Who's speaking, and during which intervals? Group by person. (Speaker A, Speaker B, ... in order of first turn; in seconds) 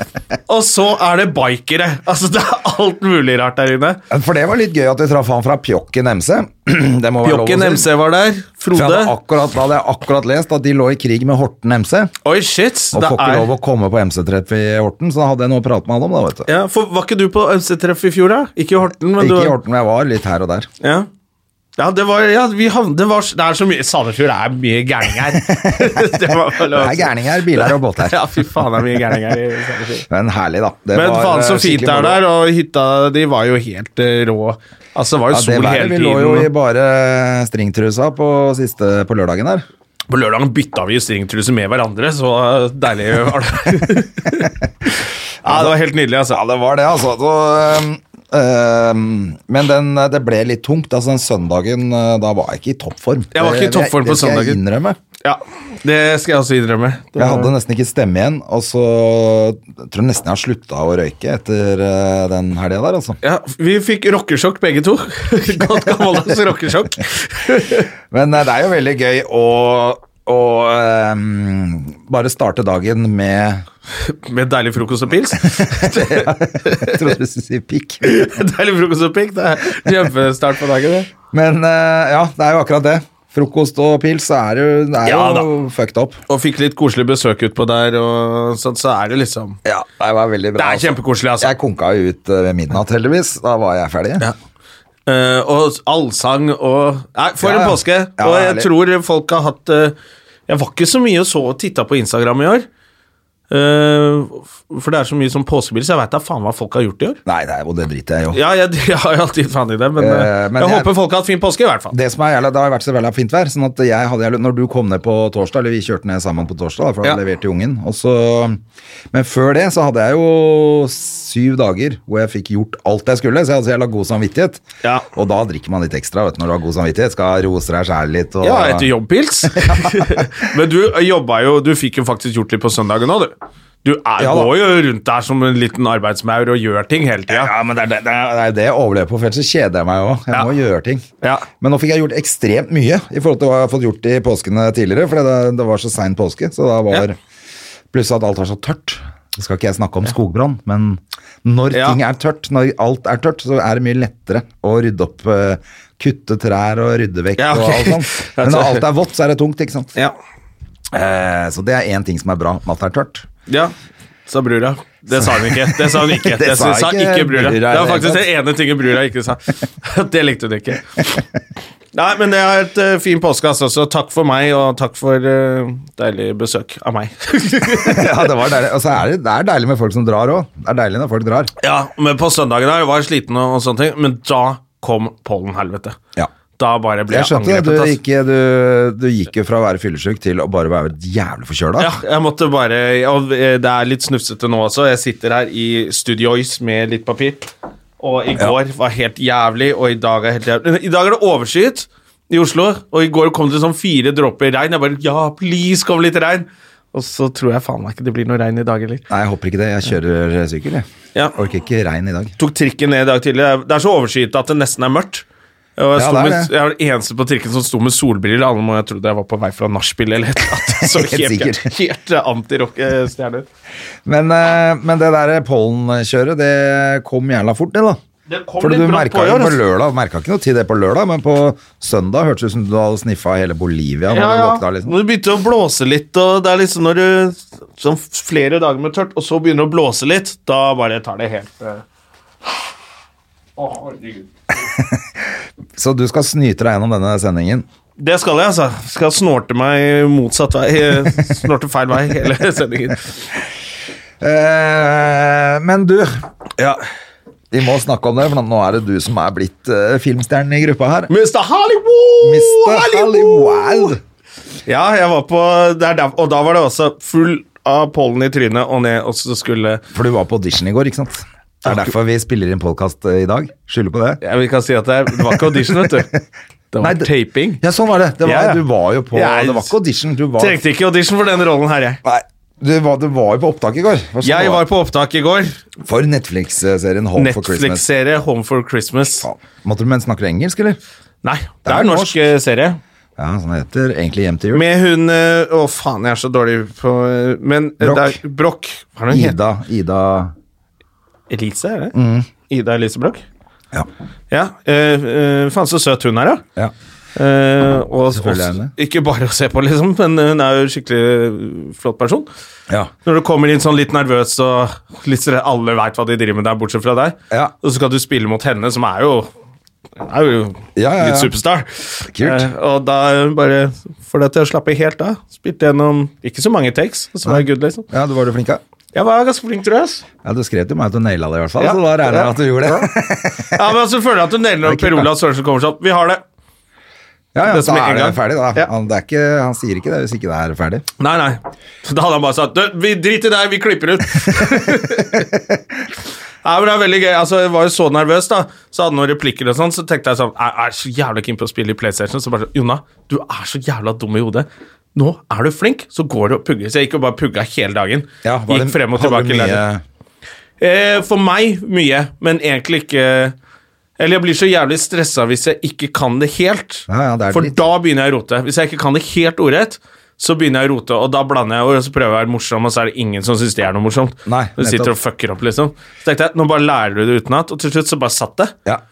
Speaker A: 0.5-4.0, 7.2-9.2, 12.2-13.5, 16.5-19.6, 20.8-21.1, 21.8-30.1, 30.9-36.5, 40.1-44.5, 45.4-46.4, 53.3-54.6, 55.2-57.5, 63.2-67.9, 74.0-77.1, 78.0-81.1, 85.0-85.5, 86.3-89.6, 90.6-91.5, 95.1-100.0, 100.5-102.7, 103.5-107.2, 108.3-112.0, 128.4-137.5, 141.2-141.5, 151.7-152.0, 157.4-158.9, 163.5-163.7, 164.3-171.0, 171.9-178.4, 181.6-186.0, 186.6-188.0, 191.8-209.0, 212.4-215.2, 215.8-223.5, 228.3-229.6, 234.1-241.8, 243.6-244.3, 248.0-253.1, 261.1-263.9, 264.7-269.8, 271.6-271.9, 274.2-276.1, 276.7-277.6, 278.2-279.7, 280.4-282.0, 284.2-285.6, 287.2-289.3, 291.2-292.8, 294.5-299.4, 301.3-301.9, 302.5-303.2, 304.3-306.4, 307.2-312.3, 313.0-319.3, 320.0-327.9, 328.9-330.0, 331.6-332.9, 333.5-336.2, 337.5-338.7, 341.0-345.3, 346.4-359.6, 360.6-363.4, 364.0-378.6
Speaker B: 4.1-7.9, 8.7-12.1, 12.9-16.5, 19.2-20.7, 25.3-29.2, 30.1-32.2, 35.3-39.6, 45.4-45.7, 46.3-55.0, 57.2-63.2, 65.7-66.3, 68.1-73.7, 75.4-78.2, 81.3-86.2, 89.7-94.3, 97.4-98.7, 107.3-108.4, 110.0-110.9, 111.9-118.6, 119.1-128.9, 129.6-130.3, 134.2-134.5, 137.3-141.1, 141.6-147.2, 147.9-159.9, 160.9-163.3, 165.1-168.3, 177.8-181.5, 187.1-191.9, 209.1-212.3, 216.0-216.5, 220.7-221.7, 224.1-228.0, 228.6-235.0, 244.6-245.0, 245.8-247.7, 254.2-256.2, 257.5-261.1, 262.2-264.0, 269.9-274.2, 275.3-276.1, 276.8-280.6, 282.0-284.7, 285.8-287.8, 289.2-290.8, 291.6-292.2, 293.2-294.6, 297.8-298.2, 299.1-300.3, 301.9-302.3, 308.1-308.7, 320.8-321.3, 322.1-322.5, 327.2-328.6, 330.2-333.8, 334.6-335.1, 337.3-340.8, 358.2-359.8, 366.9-367.6, 374.3-374.9